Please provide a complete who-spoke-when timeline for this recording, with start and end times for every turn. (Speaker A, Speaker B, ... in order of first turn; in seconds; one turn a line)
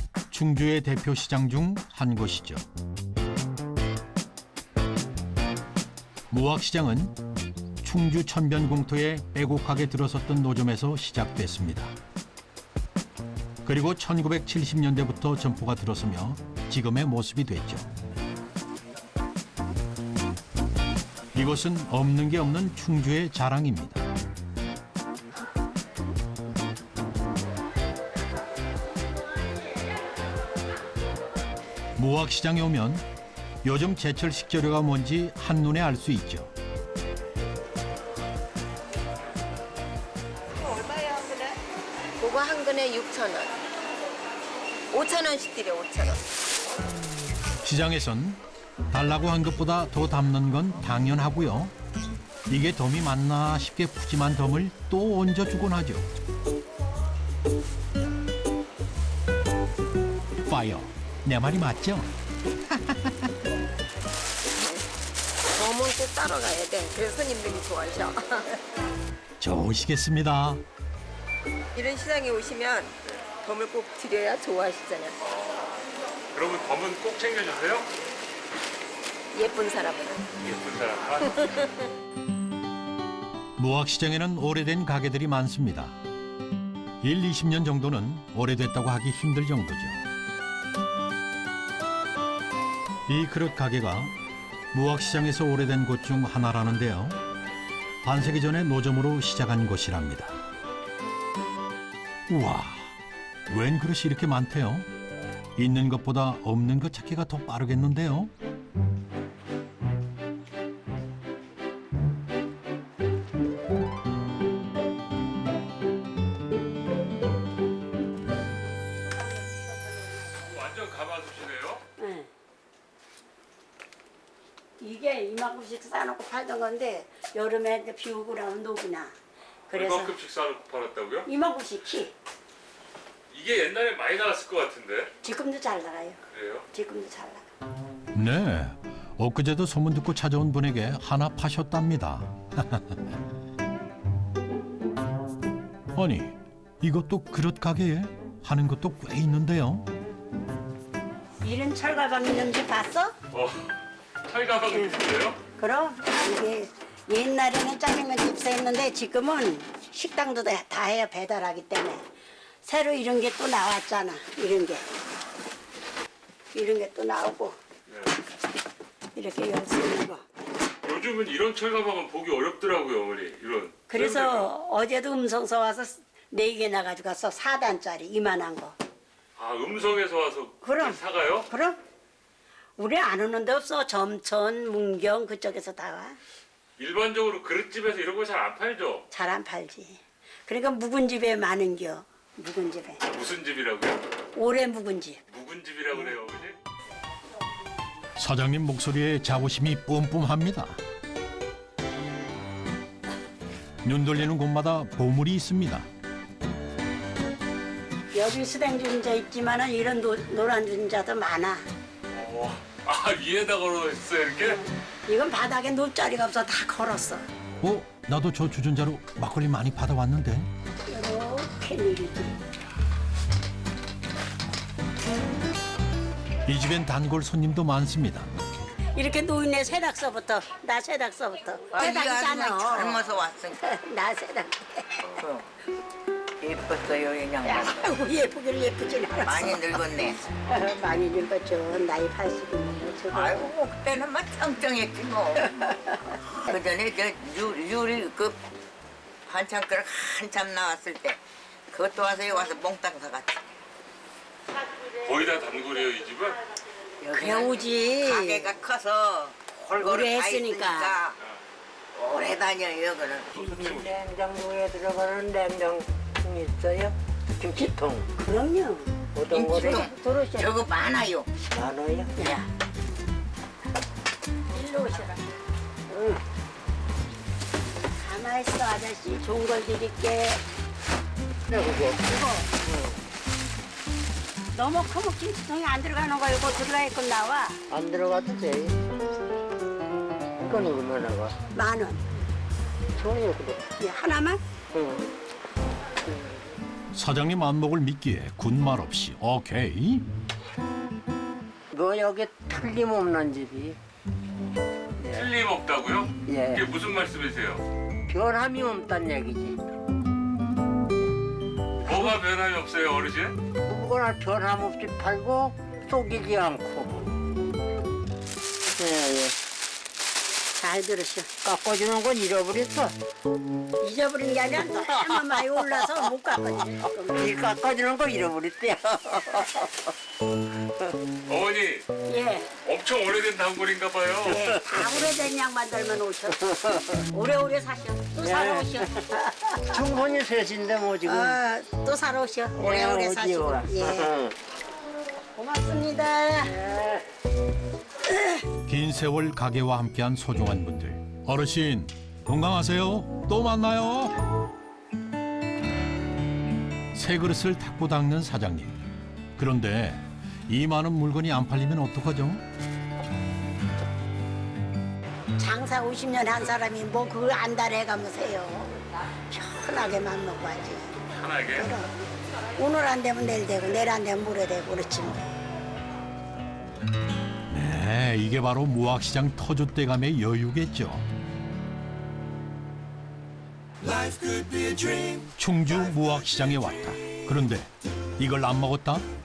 Speaker A: 0.3-2.6
Speaker A: 6.3-7.2
Speaker A: 7.8-11.9
Speaker A: 13.6-17.9
Speaker A: 21.3-24.1
Speaker A: 32.0-33.0
Speaker A: 33.6-36.5
Speaker B: 40.7-41.5
Speaker B: 42.2-43.5
Speaker B: 44.9-46.2
Speaker A: 47.6-51.7
Speaker A: 52.5-56.1
Speaker A: 60.5-62.1
Speaker A: 62.7-63.3
Speaker B: 65.5-68.5
Speaker A: 69.4-70.6
Speaker B: 71.7-72.9
Speaker B: 73.4-75.1
Speaker C: 75.2-75.7
Speaker C: 76.3-77.9
Speaker B: 79.3-80.2
Speaker C: 80.4-81.4
Speaker A: 83.6-86.0
Speaker A: 87.0-90.0
Speaker A: 93.1-94.1
Speaker A: 94.7-97.2
Speaker A: 98.0-100.4
Speaker A: 102.3-103.0
Speaker A: 103.5-104.9
Speaker A: 105.5-108.3
Speaker C: 120.4-121.8
Speaker D: 122.0-122.3
Speaker D: 124.8-129.1
Speaker D: 129.7-130.1
Speaker C: 129.7-131.3
Speaker D: 131.2-132.1
Speaker C: 133.3-135.1
Speaker D: 135.2-136.2
Speaker C: 136.3-136.7
Speaker D: 136.7-137.5
Speaker A: 138.1-143.0
Speaker A: 145.9-149.8
Speaker D: 151.4-153.1
Speaker C: 153.3-153.7
Speaker C: 154.3-155.4
Speaker D: 154.7-155.0
Speaker D: 155.6-162.0
Speaker D: 162.6-164.9
Speaker D: 166.5-167.6
Speaker C: 167.9-168.1
Speaker D: 169.1-170.2
Speaker C: 170.8-174.5
Speaker D: 173.9-178.8
Speaker C: 179.4-181.5
Speaker D: 180.6-181.8
Speaker D: 182.8-186.2
Speaker C: 186.8-189.0
Speaker D: 189.1-193.0
Speaker C: 193.1-194.0
Speaker D: 194.3-195.2
Speaker C: 195.3-196.5
Speaker A: 198.2-200.8
Speaker A: 203.8-205.9
Speaker D: 208.1-211.6
Speaker C: 212.1-214.6
Speaker D: 214.4-217.2
Speaker A: 217.6-220.5
Speaker D: 220.9-222.3
Speaker A: 226.4-228.3
Speaker D: 228.9-235.0
Speaker E: 231.7-233.6
Speaker E: 235.2-235.4
Speaker E: 236.4-237.8
Speaker D: 237.4-243.6
Speaker E: 239.2-240.2
Speaker E: 243.1-245.6
Speaker D: 245.6-245.9
Speaker E: 246.3-248.4
Speaker E: 249.3-251.2
Speaker E: 251.7-253.4
Speaker C: 255.0-256.4
Speaker F: 257.0-257.4
Speaker D: 257.1-258.5
Speaker E: 257.3-261.1
Speaker D: 259.8-261.0
Speaker E: 261.9-263.4
Speaker C: 263.3-264.0
Speaker F: 263.4-268.1
Speaker D: 267.6-270.6
Speaker F: 269.1-269.9
Speaker E: 269.3-271.3
Speaker F: 271.5-272.1
Speaker D: 272.2-272.5
Speaker D: 274.5-275.2
Speaker F: 275.9-276.2
Speaker D: 278.0-280.4
Speaker F: 281.5-282.9
Speaker D: 282.0-282.5
Speaker D: 284.5-287.6
Speaker F: 287.7-288.8
Speaker F: 290.4-291.3
Speaker D: 291.5-292.0
Speaker F: 293.0-293.6
Speaker D: 293.7-294.4
Speaker F: 294.7-295.1
Speaker F: 296.1-296.4
Speaker A: 296.9-300.1
Speaker F: 301.7-303.8
Speaker C: 305.0-307.6
Speaker F: 306.2-306.7
Speaker F: 308.1-309.6
Speaker C: 311.9-313.4
Speaker F: 313.7-317.1
Speaker F: 318.8-319.4
Speaker D: 320.6-321.3
Speaker F: 321.4-322.9
Speaker D: 323.8-327.4
Speaker F: 324.7-326.1
Speaker F: 327.1-329.6
Speaker C: 331.3-331.9
Speaker D: 332.1-332.5
Speaker C: 332.7-334.6
Speaker D: 334.2-336.5
Speaker F: 334.4-335.1
Speaker D: 337.1-339.8
Speaker F: 338.2-338.9
Speaker F: 339.7-341.4
Speaker D: 341.0-344.1
Speaker F: 342.5-344.2
Speaker D: 345.4-346.6
Speaker D: 348.1-348.5
Speaker A: 348.7-354.2
Speaker A: 356.9-358.8
Speaker A: 359.4-362.4
Speaker D: 365.4-368.7
Speaker D: 369.3-371.0
Speaker C: 371.1-371.7
Speaker D: 371.5-371.9
Speaker D: 372.6-375.2
Speaker A: 377.5-381.1
Speaker A: 385.0-389.1